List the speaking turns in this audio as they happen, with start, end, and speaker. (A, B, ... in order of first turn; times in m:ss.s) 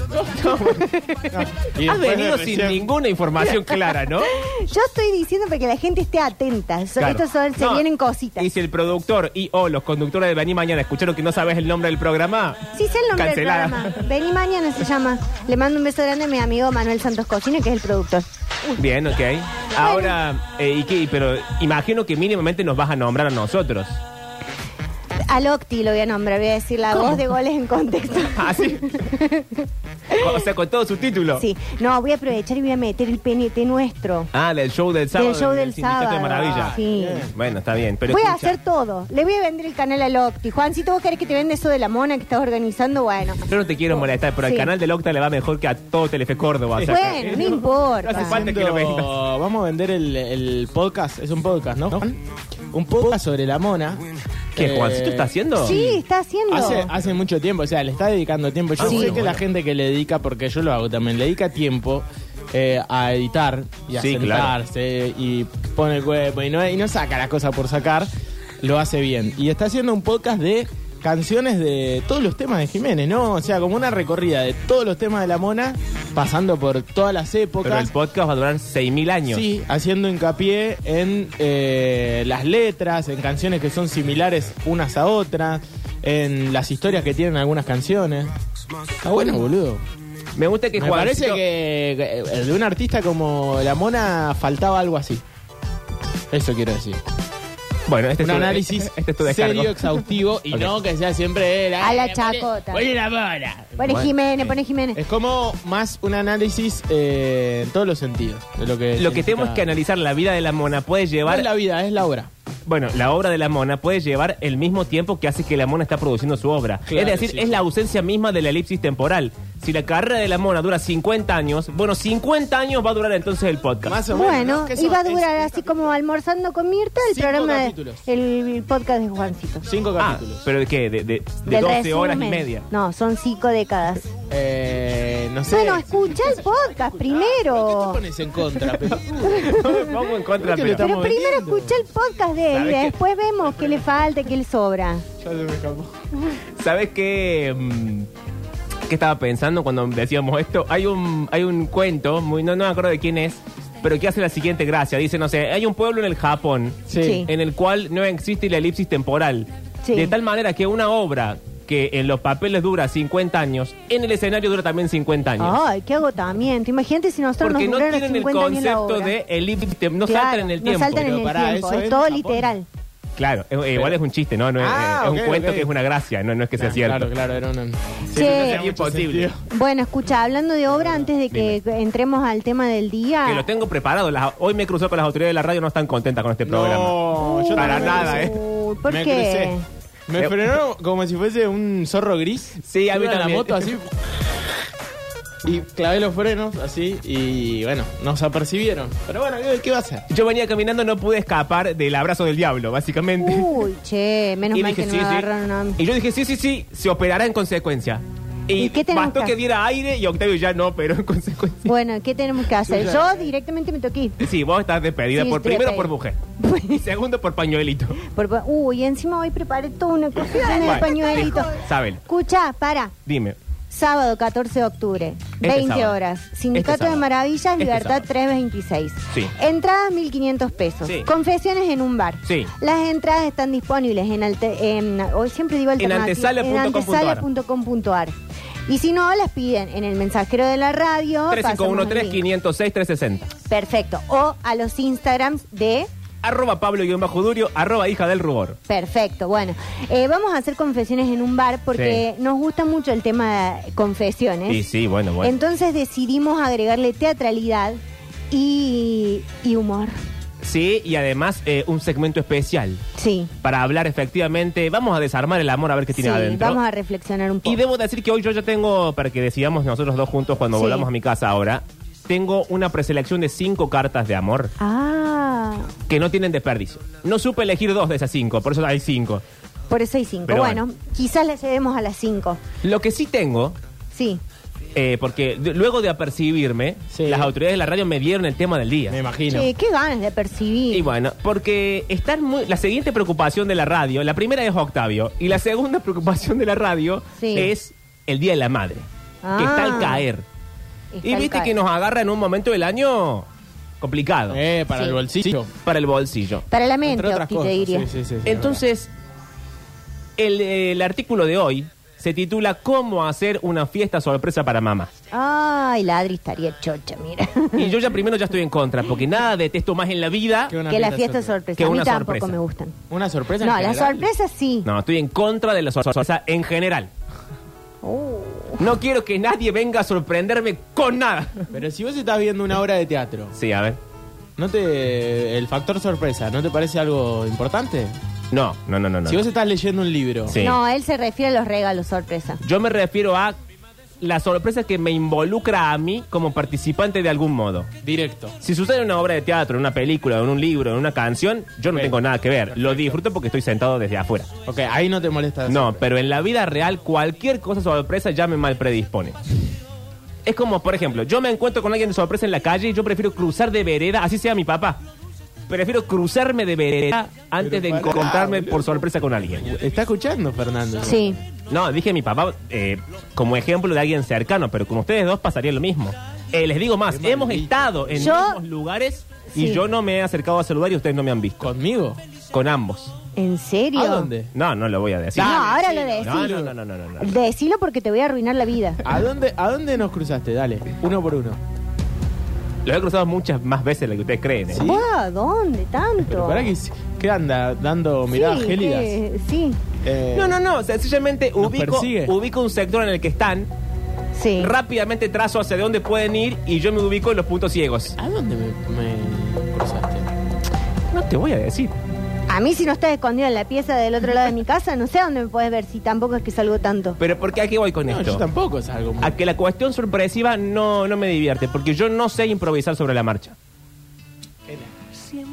0:00.1-0:00.9 A
0:00.8-0:01.2 B
0:01.3-0:02.9 C
0:01.8-0:04.3 A
0:03.4-0:08.5 B
0:07.0-0:07.8 A
0:08.4-0:14.0 A
0:12.7-0:18.8 B
0:18.8-0:24.0 A
0:19.7-0:20.2 B
0:25.2-0:30.4 B
0:28.3-0:29.1 A
0:30.1-0:31.4 A
0:31.4-0:34.3 B
0:34.3-0:36.8 A
0:35.1-0:37.3 B
0:36.3-0:37.4 C
0:37.3-0:38.6 A
0:38.1-0:43.4 B
0:43.4-0:49.1 A
0:44.4-0:44.7 B
0:46.7-1:08.1 C
0:46.8-0:48.4 B
0:54.5-0:55.8 A
0:55.6-0:56.9 B
0:58.8-0:59.4 A
0:58.8-0:59.2 B
1:03.9-1:04.5 A
1:08.6-1:17.9 C
1:17.6-1:19.4 A
1:19.3-1:28.3 C
1:29.0-1:29.8 C
1:30.4-1:31.4 A
1:30.8-1:35.2 C
1:36.3-1:37.0 C
1:37.9-1:40.7 A
1:38.2-1:43.9 C
1:41.8-1:42.9 B
1:43.8-1:45.0 B
1:43.8-1:44.4 A
1:44.9-1:49.7 C
1:49.0-1:51.5 A
1:51.2-1:52.3 C
1:52.7-2:04.0 A
1:56.9-1:57.6 C
2:03.8-2:05.9 C
2:04.1-2:09.6 B
2:07.1-2:08.0 C
2:09.6-2:10.4 C
2:10.0-2:12.7 A
2:11.5-2:14.1 B
2:14.3-2:19.7 C
2:15.5-2:18.0 B
2:19.3-2:19.9 B
2:19.4-2:20.9 A
2:20.4-2:21.8 C
2:20.8-2:25.0 B
2:22.5-2:23.0 A
2:25.2-2:26.0 C
2:26.6-2:28.1 A
2:28.9-2:45.6 A
2:36.9-2:37.3 C
2:37.0-2:37.3 B
2:39.8-2:40.1 B
2:45.4-2:49.1 B
2:47.4-2:51.1 A
2:50.0-2:52.7 B
2:50.9-2:52.5 C
2:53.2-2:57.1 A
2:54.6-2:55.7 C
2:56.6-2:59.4 C
2:58.1-2:58.6 B
2:58.1-2:59.3 A
2:59.5-3:03.4 B
3:00.8-3:01.1 C
3:01.3-3:01.6 A
3:03.2-3:08.4 A
3:06.4-3:09.5 C
3:07.1-3:09.6 B
3:10.1-3:13.9 C
3:10.2-3:10.4 A
3:12.6-3:13.7 A
3:15.4-3:20.0 C
3:20.1-3:23.6 A
3:23.2-3:25.8 B
3:24.5-3:31.7 A
3:28.6-3:29.3 B
3:31.6-3:34.2 B
3:34.2-3:38.0 A
3:35.2-3:36.8 B
3:38.0-3:42.9 B
3:40.3-3:42.0 A
3:43.0-3:43.4 A
3:43.7-3:58.2 B
3:45.4-3:45.9 A
3:46.5-3:47.0 A
3:47.6-3:48.0 A
3:52.2-3:52.5 A
3:55.8-3:57.2 A
3:58.7-4:02.2 B
4:01.3-4:03.3 A
4:03.5-4:05.9 B
4:06.2-4:08.6 A
4:08.7-4:14.6 B
4:11.7-4:12.0 A
4:14.5-4:15.3 A
4:15.2-4:17.8 B
4:18.3-4:20.0 B
4:20.4-4:22.8 A
4:23.0-4:23.3 B
4:23.4-4:26.6 A
4:25.9-4:27.6 B
4:27.4-4:34.5 A
4:30.5-4:30.9 B
4:34.6-4:35.7 B
4:35.9-4:39.2 A
4:39.7-4:42.4 B
4:40.3-4:40.6 A
4:42.6-4:43.6 A
4:43.9-4:44.2 B
4:44.7-4:49.0 A
4:46.9-4:47.3 C
4:48.9-4:49.5 C
4:49.3-4:50.9 B
4:50.7-4:58.8 A
4:57.2-4:57.5 B
4:59.2-5:00.0 B
4:59.4-5:00.2 A
5:00.9-5:01.5 B
5:01.0-5:03.3 A
5:03.8-5:04.4 A
5:04.3-5:05.5 C
5:05.6-5:06.4 A
5:06.5-5:07.9 B
5:06.8-5:08.6 C
5:08.2-5:08.9 A
5:10.2-5:14.9 A
5:15.1-5:17.7 B
5:17.5-5:20.6 A
5:20.5-5:21.4 C
5:20.7-5:22.8 B
5:21.6-5:22.4 A
5:22.9-5:24.1 C
5:23.4-5:24.7 B
5:24.6-5:26.9 A
5:27.8-5:28.6 B
5:28.6-5:31.5 A
5:31.5-5:33.4 C
5:33.3-5:33.8 A
5:34.4-5:38.0 C
5:38.3-5:39.2 A
5:39.0-5:40.4 C
5:40.3-5:40.6 A
5:40.4-5:42.4 B
5:42.4-5:43.4 A
5:44.0-5:47.7 A
5:47.8-5:48.4 C
5:48.4-5:54.3 A
5:51.7-5:53.0 C
5:54.4-5:55.8 C
5:55.5-5:59.2 A
6:00.2-6:04.8 A
6:05.5-6:09.4 A
6:07.4-6:08.8 C
6:09.4-6:11.2 C
6:10.8-6:11.2 B
6:11.5-6:21.5 A
6:16.9-6:18.2 C
6:18.0-6:18.4 B
6:19.3-6:19.6 B
6:21.4-6:22.0 C
6:22.3-6:22.9 A
6:23.2-6:24.1 B
6:23.7-6:24.3 C
6:24.3-6:27.1 A
6:25.1-6:26.5 C
6:25.2-6:26.3 B
6:27.0-6:28.8 B
6:28.8-6:31.4 C
6:32.6-6:34.7 A
6:34.5-6:34.8 C
6:34.6-6:36.5 B
6:36.0-6:39.0 C
6:38.1-6:39.6 B
6:39.8-6:40.4 C
6:40.1-6:43.5 A
6:41.4-6:42.1 C
6:44.1-6:44.5 B
6:44.4-6:48.0 A
6:48.0-6:50.1 C
6:50.9-6:51.7 A
6:52.3-6:57.0 B
6:57.0-6:58.2 A
6:57.8-6:59.1 C
6:59.0-7:03.4 A
7:04.5-7:04.7 C